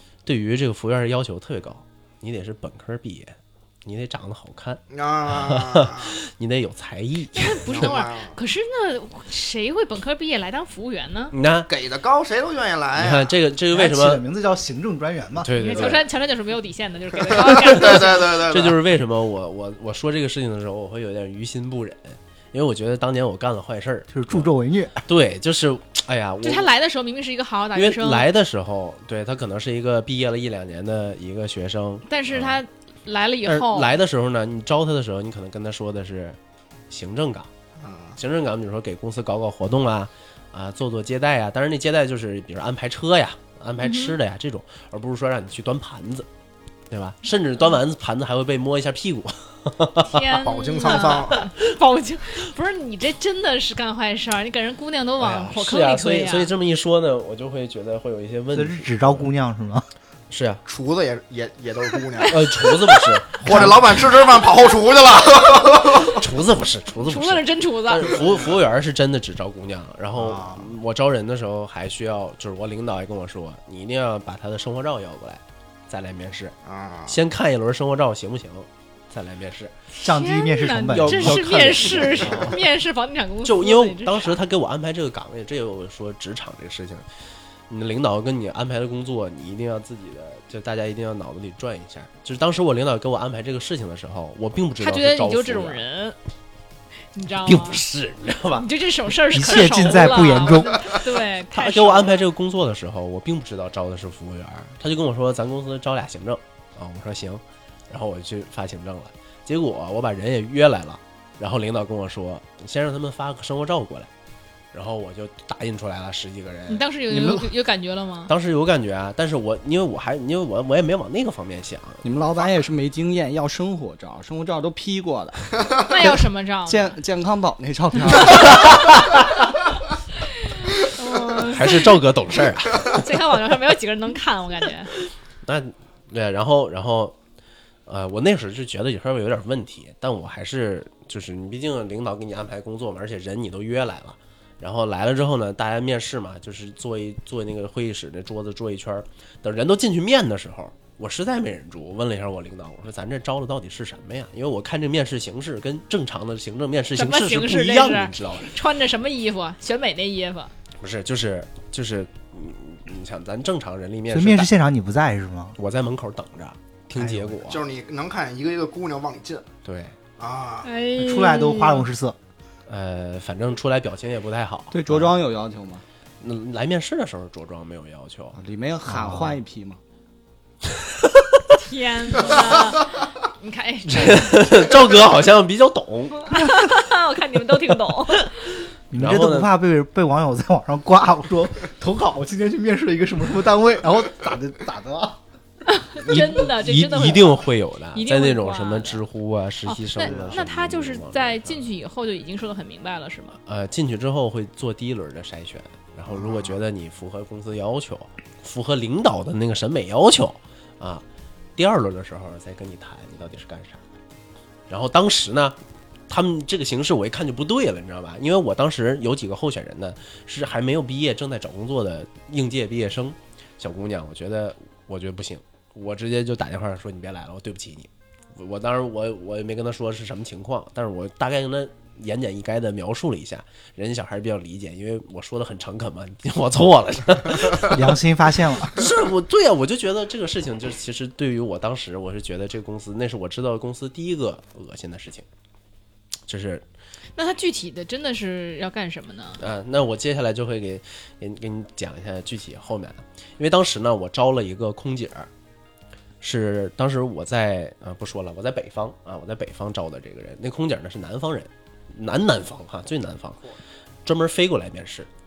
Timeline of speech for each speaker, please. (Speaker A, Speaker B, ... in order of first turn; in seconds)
Speaker A: 0.3-7.9, 11.3-11.7, 13.0-14.2, 15.4-16.0, 17.6-24.5, 25.1-26.7, 27.8-32.6, 33.5-36.4, 36.9-37.5, 38.2-46.3, 46.9-50.2, 50.9-51.1, 55.2-59.3, 60.3-60.6, 62.2-64.0, 65.9-76.5, 77.1-79.7, 80.9-82.6, 83.4-95.8, 97.5-98.7, 101.5-114.1, 114.7-117.4, 118.3-122.0, 128.2-129.1, 131.5-133.0, 135.4-137.2, 137.9-158.6, 160.8-164.5, 165.6-167.6, 169.7-169.9, 172.7-175.1, 176.2-178.4, 178.9-179.3, 180.7-181.4, 183.9-186.7, 188.9-189.5, 196.0-201.7, 203.5-211.0, 211.6-213.8, 214.7-215.6, 216.1-238.0, 238.6-245.3, 246.3-246.6, 249.4-255.3, 256.2-263.4, 264.1-265.1
Speaker B: 4.9-6.2, 7.7-8.4, 11.7-13.3, 17.5-18.8, 37.8-38.2, 50.4-51.5, 60.7-62.8, 63.4-66.2, 76.7-77.2, 167.5-169.5, 170.2-170.7, 206.1-206.6
Speaker C: 7.3-11.3, 15.6-18.3, 26.4-28.3, 32.1-33.9, 43.8-44.1, 50.0-56.5, 67.0-68.2, 79.9-84.4, 94.8-96.2, 97.1-97.8, 98.5-102.2, 116.7-118.3, 125.9-127.0, 130.4-132.0, 132.9-134.9, 157.0-160.5, 170.6-171.9, 181.5-184.2, 186.3-188.5, 195.7-199.0, 199.6-203.4, 247.2-249.4
Speaker D: 13.7-15.5, 24.1-25.1, 58.5-59.9, 70.2-70.6, 80.0-81.4, 99.3-100.8, 164.1-165.6, 166.9-167.4, 171.0-172.2, 188.9-195.2, 200.0-200.4, 237.6-238.9
Speaker E: 122.0-125.5, 126.7-128.8, 174.7-175.8, 178.3-179.8